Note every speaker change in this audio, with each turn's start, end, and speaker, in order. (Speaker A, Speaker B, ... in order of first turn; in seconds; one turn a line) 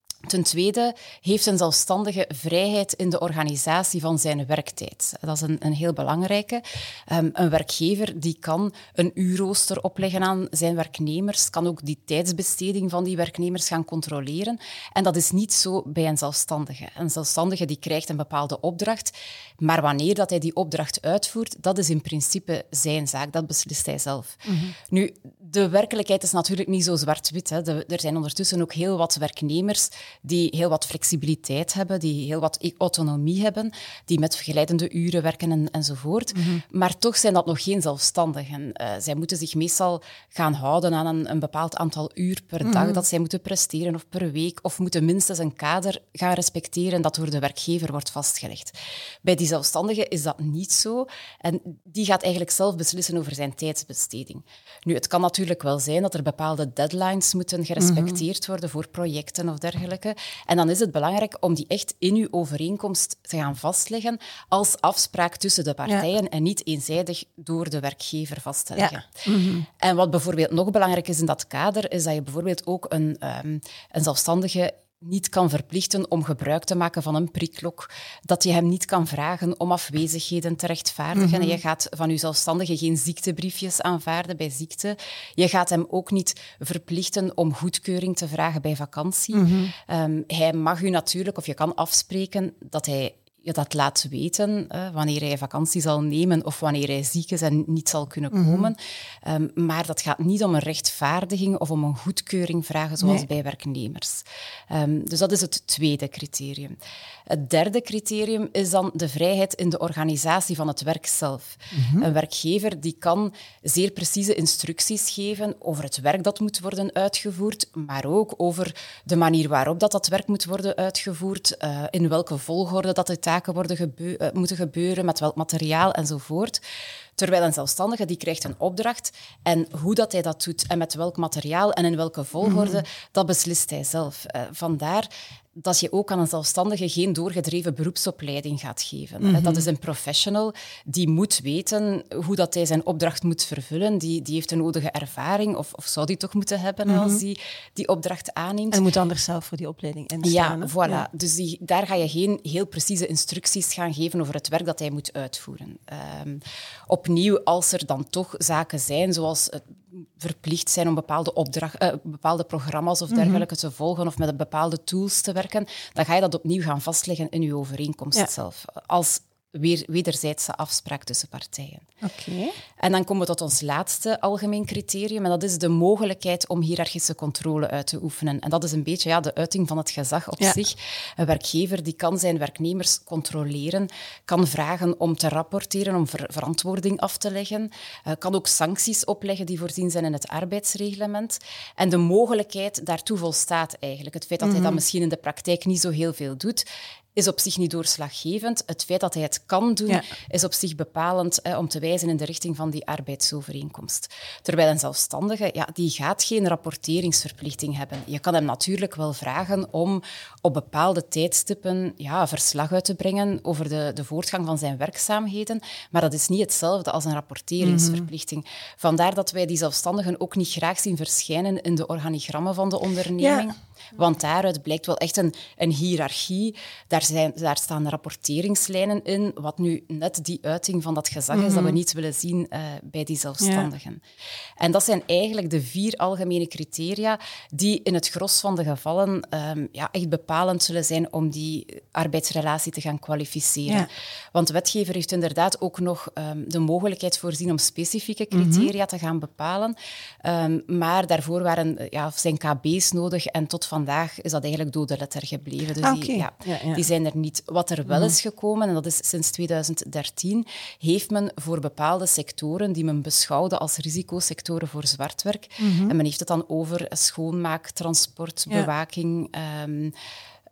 Speaker A: 0.3-69.2
Speaker B: 24.4-24.7
Speaker B: 36.3-36.6
Speaker B: 42.6-43.0
Speaker B: 57.8-58.2
Speaker B: 68.8-69.7
Speaker A: 69.8-106.8
Speaker B: 81.1-81.6
Speaker B: 89.3-89.7
Speaker B: 98.3-98.7
Speaker A: 107.3-126.6
Speaker B: 111.7-112.1
Speaker A: 127.2-148.8
Speaker B: 132.4-132.8
Speaker B: 139.2-139.7
Speaker B: 146.8-147.2
Speaker B: 148.7-151.1
Speaker A: 150.2-171.8
Speaker B: 163.1-163.4
Speaker B: 172.0-172.5
Speaker A: 172.8-196.6
Speaker B: 194.4-194.8
Speaker A: 197.2-234.0
Speaker B: 217.6-218.1
Speaker B: 223.2-223.5
Speaker B: 231.3-231.8
Speaker B: 233.4-233.7
Speaker A: 234.6-269.9
Speaker B: 248.3-248.7
Speaker B: 255.8-256.8
Speaker B: 257.9-258.1
Speaker B: 265.6-265.9